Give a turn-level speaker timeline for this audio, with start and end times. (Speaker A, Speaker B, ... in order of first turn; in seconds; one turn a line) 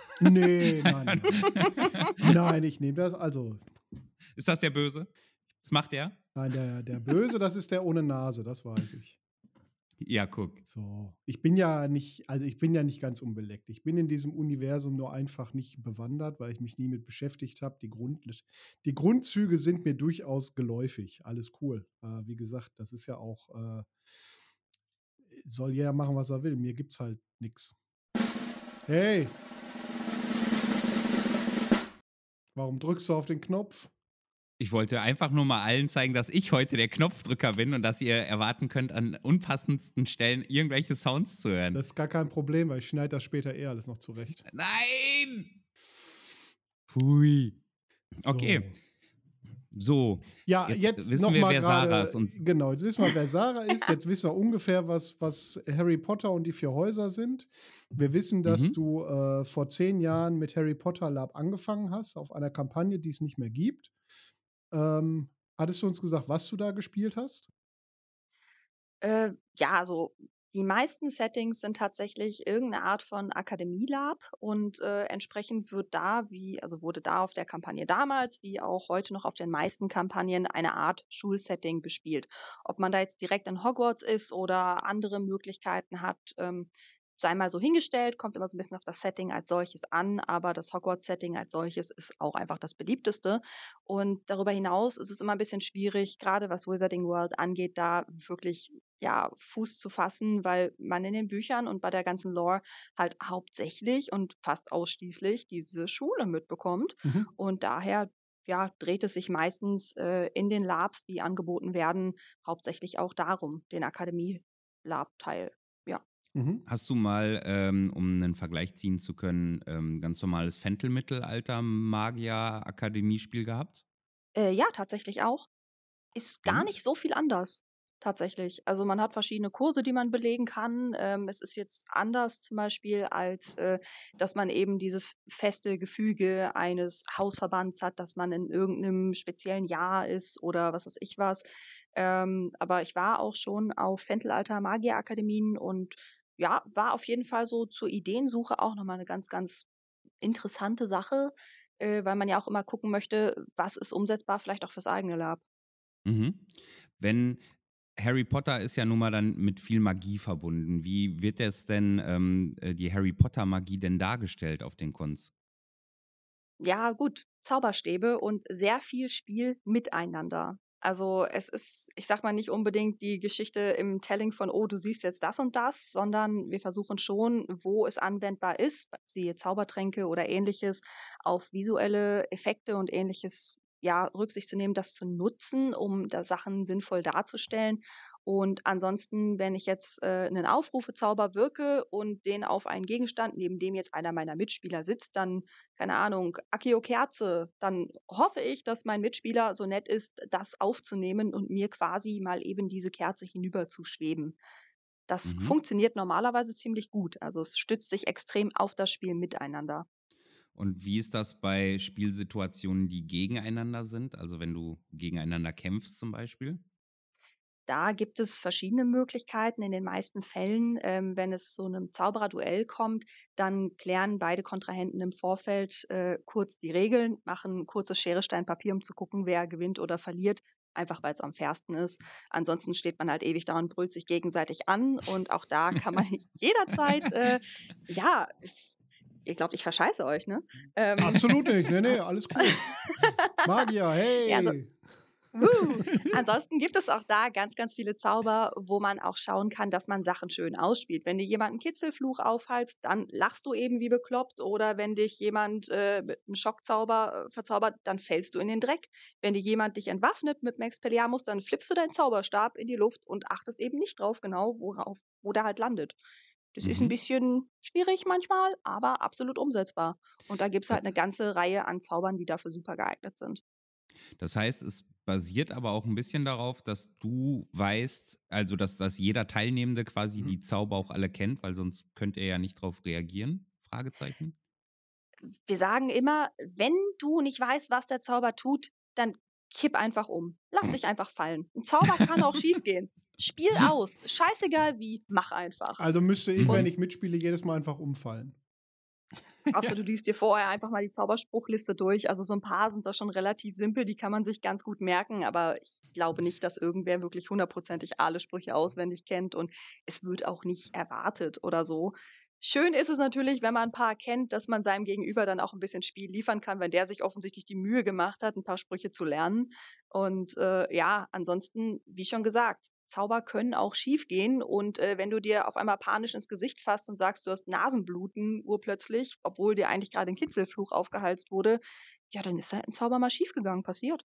Speaker A: 0.2-3.6
Speaker B: 0.4-2.3
Speaker B: 4.4-5.1
Speaker B: 5.6-6.2
Speaker A: 6.3-9.2
Speaker B: 10.0-10.6
Speaker A: 10.7-23.9
Speaker A: 25.3-27.8
Speaker A: 28.9-29.4
Speaker A: 32.5-33.9
Speaker B: 34.6-41.8
Speaker A: 41.7-44.5
Speaker B: 44.5-45.6
Speaker B: 46.9-47.6
Speaker B: 48.2-48.7
Speaker A: 48.2-48.7
Speaker B: 49.7-52.4
Speaker A: 50.5-63.9
Speaker B: 58.5-58.8
Speaker A: 64.7-67.5
Speaker C: 69.0-116.0
Speaker A: 116.3-116.7
Speaker B: 116.7-123.8
Speaker C: 124.4-125.5
Speaker C: 126.2-149.7
Speaker C: 150.2-155.4
Speaker B: 156.1-157.4
Speaker B: 158.0-165.3
Speaker C: 166.6-204.4
Speaker C: 205.1-209.9
Speaker B: 205.2-205.6
Speaker B: 210.6-216.6
Speaker C: 217.7-238.7
Speaker C: 239.2-243.5
Speaker A: 241.0-242.7
Speaker A: 243.4-244.7
Speaker C: 244.2-244.6
Speaker C: 245.4-266.0
Speaker C: 266.6-273.4
Speaker B: 266.6-266.9
Speaker B: 274.2-284.4
Speaker C: 285.5-295.8
Speaker A: 295.8-298.4
Speaker B: 296.4-296.7
Speaker C: 299.5-334.0